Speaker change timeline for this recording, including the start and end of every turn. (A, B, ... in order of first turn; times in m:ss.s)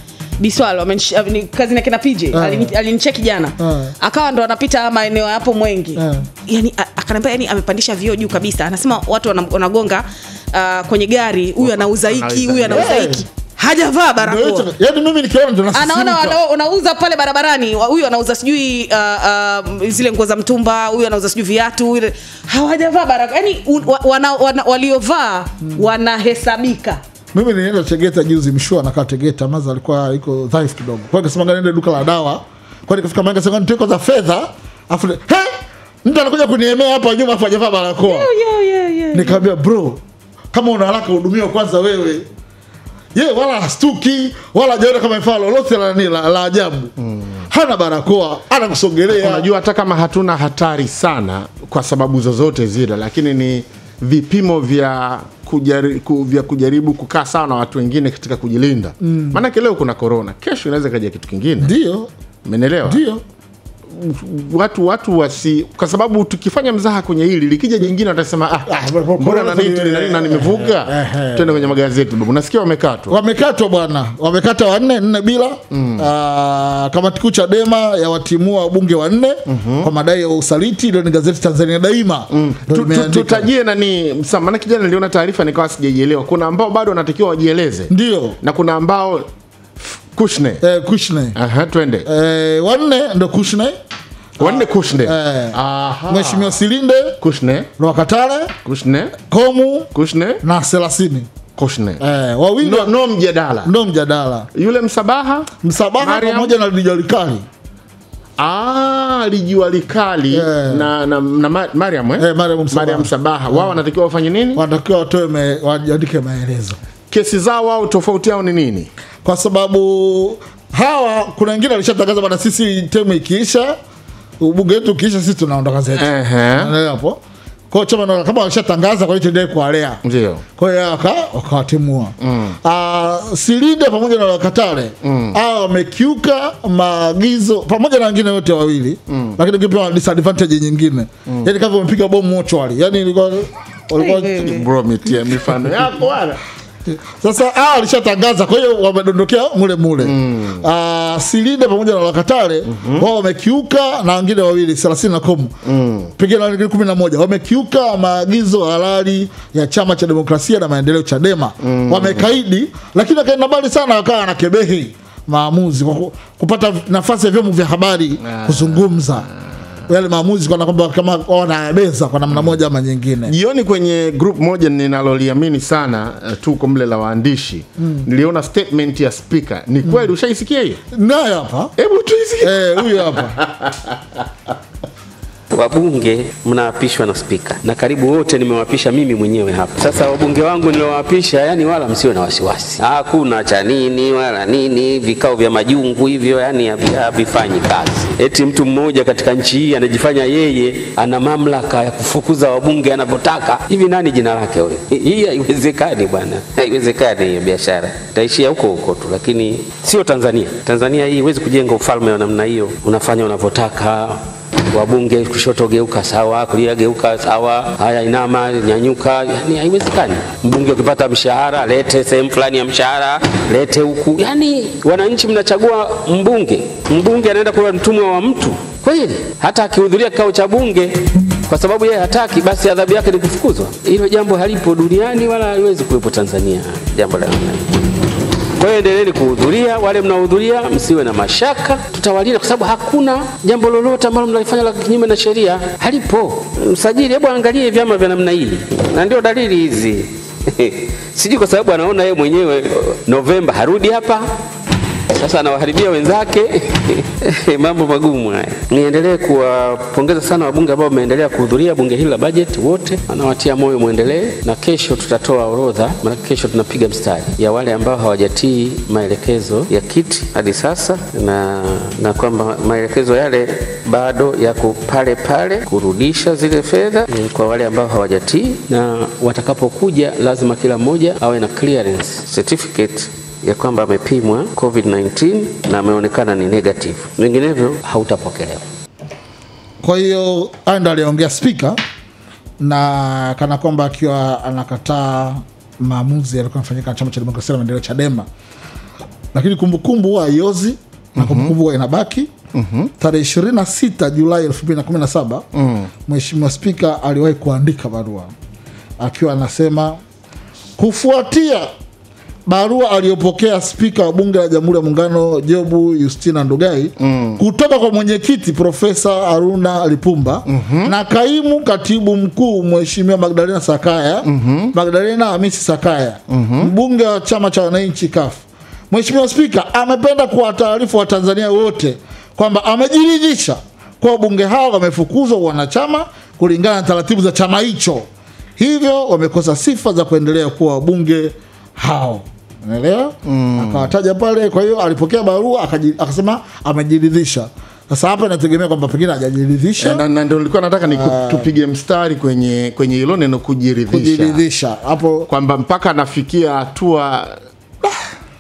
0:00.4-0:14.6 A
0:02.3-0:02.7 B
0:03.6-0:03.9 B
0:06.0-0:06.3 B
0:11.6-0:13.0 C
0:12.7-0:13.2 B
0:14.2-0:16.4 B
0:15.7-0:27.0 A
0:27.3-0:35.5 B
0:36.0-0:38.3 B
0:38.1-0:39.4 A
0:39.1-0:40.0 B
0:40.5-0:42.2 B
0:43.1-0:46.9 B
0:47.0-0:47.4 C
0:47.5-0:49.5 B
0:49.1-1:01.7 C
0:59.0-0:59.4 B
1:01.6-1:02.1 B
1:02.4-1:03.0 C
1:02.8-1:03.2 B
1:03.9-1:13.2 C
1:08.7-1:11.7 B
1:13.1-1:23.5 B
1:15.7-1:16.0 C
1:19.5-1:19.9 C
1:22.3-1:29.3 C
1:27.9-1:28.4 B
1:29.8-1:30.6 C
1:30.6-1:31.4 B
1:31.3-1:32.1 C
1:32.0-1:33.7 B
1:34.4-1:36.6 C
1:34.4-1:37.2 B
1:37.2-1:37.7 C
1:37.8-1:38.5 B
1:38.6-1:39.2 C
1:39.3-1:39.9 B
1:39.9-1:40.4 C
1:40.4-1:41.3 B
1:41.6-1:42.0 C
1:42.0-1:42.9 B
1:42.6-1:43.7 C
1:43.6-1:44.5 B
1:44.5-1:46.6 C
1:45.6-1:47.4 B
1:48.4-1:54.6 C
1:50.3-1:50.9 B
1:52.2-1:53.8 B
1:54.6-1:56.8 B
1:57.1-1:58.9 C
1:59.2-2:03.8 B
2:04.4-2:07.2 B
2:05.9-2:06.7 C
2:07.7-2:10.0 B
2:10.0-2:10.4 C
2:10.6-2:24.4 B
2:12.2-2:12.6 C
2:15.0-2:15.4 C
2:19.1-2:19.4 C
2:24.0-2:24.6 A
2:24.4-2:26.4 C
2:26.9-2:35.5 B
2:30.0-2:30.6 C
2:32.7-2:33.0 C
2:35.6-2:36.1 C
2:36.2-2:49.3 B
2:41.6-2:42.2 C
2:48.2-2:49.0 C
2:49.9-2:53.3 B
2:53.2-3:00.8 C
2:57.8-2:58.0 B
3:00.9-3:01.7 B
3:01.8-3:04.2 C
3:02.4-3:03.4 B
3:05.5-4:14.3 D
4:15.1-4:48.6 D
4:49.8-4:51.8 B
4:52.6-4:58.3 B
4:59.3-5:02.3 B
5:01.2-5:01.5 C
5:02.5-5:02.9 C
5:03.0-5:05.4 B
5:05.5-5:05.9 C
5:06.1-5:08.3 B
5:09.0-5:10.0 B
5:10.8-5:11.7 B
5:12.5-5:38.0 B
5:17.0-5:17.4 C
5:20.5-5:20.9 C
5:24.2-5:24.7 C
5:26.3-5:26.7 C
5:38.6-5:50.0 B
5:43.2-5:43.9 C
5:49.8-5:54.4 C
5:50.9-5:51.5 B
5:53.9-5:55.3 B
5:55.3-5:58.0 C